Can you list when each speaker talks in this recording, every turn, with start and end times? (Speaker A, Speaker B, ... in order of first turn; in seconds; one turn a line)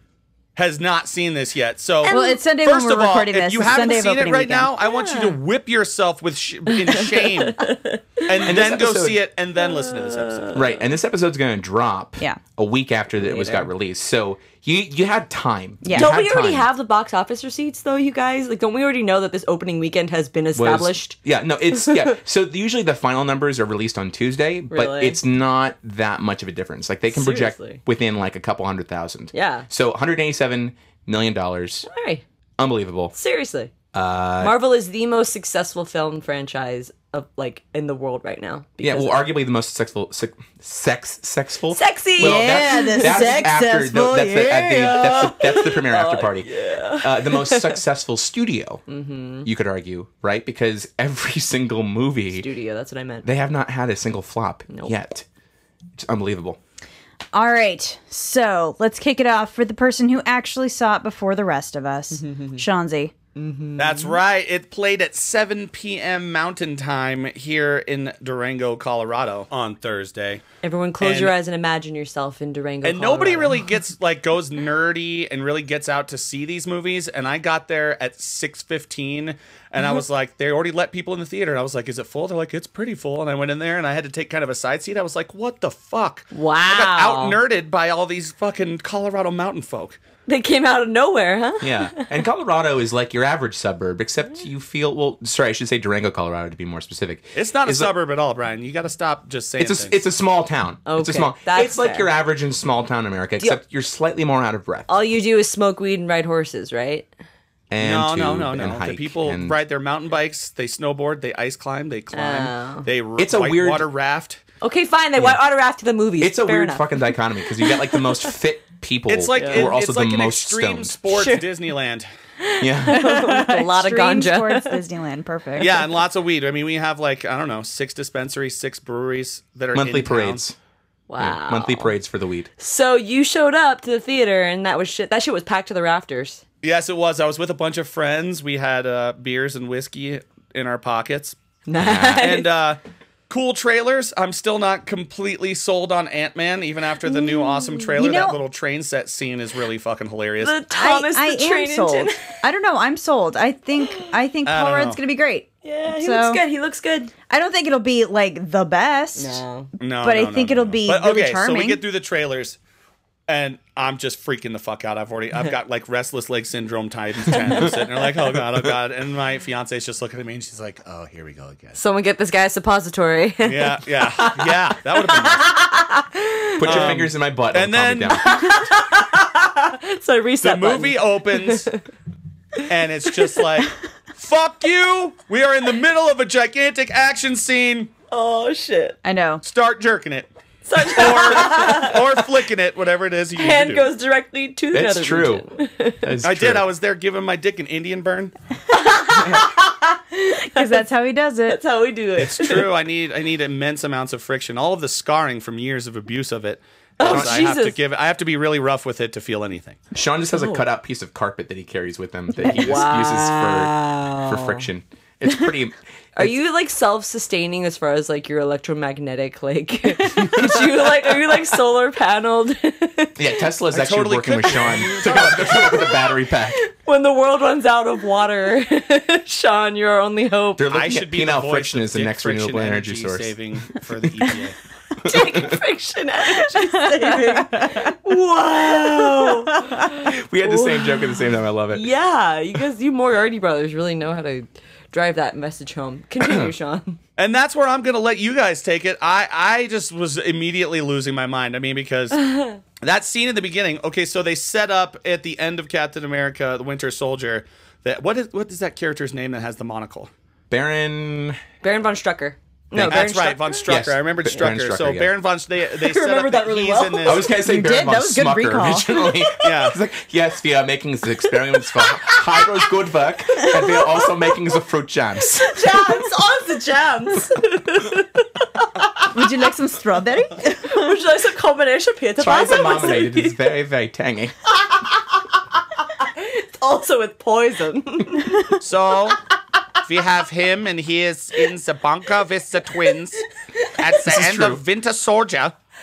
Speaker A: 0.6-7.6
Speaker B: 2.0-4.7
Speaker C: 2.0-2.4
Speaker C: 4.8-5.3
Speaker C: 6.7-8.4
Speaker A: 8.2-10.6
Speaker D: 8.4-9.2
Speaker C: 9.6-10.6
Speaker D: 10.5-16.7
Speaker C: 13.2-13.7
Speaker B: 15.8-16.1
Speaker C: 15.9-21.1
Speaker D: 20.5-31.9
Speaker C: 24.7-25.2
Speaker C: 27.1-27.8
Speaker C: 29.3-29.7
Speaker C: 31.9-32.2
Speaker D: 32.6-33.1
Speaker C: 33.1-33.7
Speaker D: 33.9-34.5
Speaker C: 34.4-39.3
Speaker D: 38.8-48.8
Speaker C: 41.7-43.6
Speaker B: 42.2-45.1
Speaker C: 44.6-47.8
Speaker C: 48.9-49.5
Speaker D: 49.4-52.5
Speaker C: 52.3-53.3
Speaker D: 53.2-55.2
Speaker C: 54.7-54.9
Speaker D: 56.0-56.6
Speaker B: 57.3-63.1
Speaker C: 62.1-62.6
Speaker C: 63.3-64.2
Speaker A: 63.8-70.4
Speaker C: 70.6-73.6
Speaker A: 71.0-71.3
Speaker A: 72.8-90.0
Speaker C: 86.3-87.4
Speaker C: 90.3-92.1
Speaker D: 91.6-97.9
Speaker A: 97.3-100.0
Speaker D: 99.6-104.9
Speaker C: 100.8-102.1
Speaker C: 104.9-107.1
Speaker D: 107.7-109.6
Speaker A: 107.8-114.4
Speaker C: 112.1-112.9
Speaker D: 113.2-113.8
Speaker C: 114.6-116.9
Speaker D: 116.2-121.0
Speaker C: 117.6-118.3
Speaker A: 119.1-122.1
Speaker C: 119.3-119.7
Speaker C: 121.1-121.5
Speaker C: 122.4-124.8
Speaker D: 122.6-123.0
Speaker B: 122.9-125.9
Speaker A: 125.6-130.4
Speaker D: 129.7-130.6
Speaker C: 131.1-131.9
Speaker D: 131.2-132.5
Speaker C: 132.6-136.4
Speaker A: 136.6-141.4
Speaker C: 141.7-142.5
Speaker D: 141.8-142.2
Speaker A: 142.2-142.8
Speaker A: 143.3-150.6
Speaker C: 147.1-147.9
Speaker B: 148.0-148.4
Speaker C: 150.4-152.4
Speaker B: 150.7-156.4
Speaker A: 154.4-155.0
Speaker C: 155.6-157.1
Speaker B: 157.3-159.4
Speaker C: 159.1-159.7
Speaker A: 159.8-162.6
Speaker B: 160.0-161.8
Speaker A: 163.3-171.8
Speaker C: 167.3-167.8
Speaker C: 171.7-173.8
Speaker A: 173.4-175.5
Speaker C: 175.0-176.9
Speaker D: 176.6-178.5
Speaker A: 176.6-178.2
Speaker C: 178.2-181.8
Speaker A: 180.4-181.7
Speaker A: 182.7-187.9
Speaker C: 188.1-189.0
Speaker B: 189.0-189.4
Speaker A: 189.4-193.8
Speaker C: 190.7-192.2
Speaker C: 193.3-196.1
Speaker D: 194.7-195.4
Speaker D: 196.0-196.7
Speaker A: 196.2-198.3
Speaker C: 198.7-200.8
Speaker B: 199.2-199.4
Speaker B: 200.5-201.6
Speaker C: 201.5-202.7
Speaker A: 202.2-209.8
Speaker C: 207.0-207.8
Speaker D: 207.0-207.4
Speaker D: 209.9-216.3
Speaker C: 210.3-210.6
Speaker C: 212.4-214.7
Speaker C: 216.2-223.2
Speaker D: 223.2-226.6
Speaker A: 223.7-225.8
Speaker C: 225.1-230.7
Speaker D: 230.6-233.3
Speaker A: 230.7-234.6
Speaker D: 235.0-235.6
Speaker C: 235.0-241.1
Speaker B: 236.4-237.9
Speaker B: 238.8-239.7
Speaker D: 240.0-241.8
Speaker C: 241.7-247.0
Speaker D: 246.2-246.5
Speaker A: 247.2-252.2
Speaker C: 252.1-252.6
Speaker A: 252.8-260.1
Speaker D: 260.5-261.4
Speaker C: 261.6-263.7
Speaker D: 262.7-263.1
Speaker A: 262.9-267.3
Speaker D: 263.6-265.1
Speaker C: 265.8-267.2
Speaker D: 267.0-275.8
Speaker B: 267.4-269.0
Speaker A: 269.4-269.8
Speaker C: 271.7-272.6
Speaker C: 273.4-274.1
Speaker C: 275.3-278.7
Speaker B: 279.1-281.0
Speaker C: 280.6-283.4
Speaker D: 282.2-284.3
Speaker C: 286.0-288.4
Speaker A: 288.6-289.2
Speaker A: 289.9-293.2
Speaker A: 293.8-295.5
Speaker D: 294.1-294.6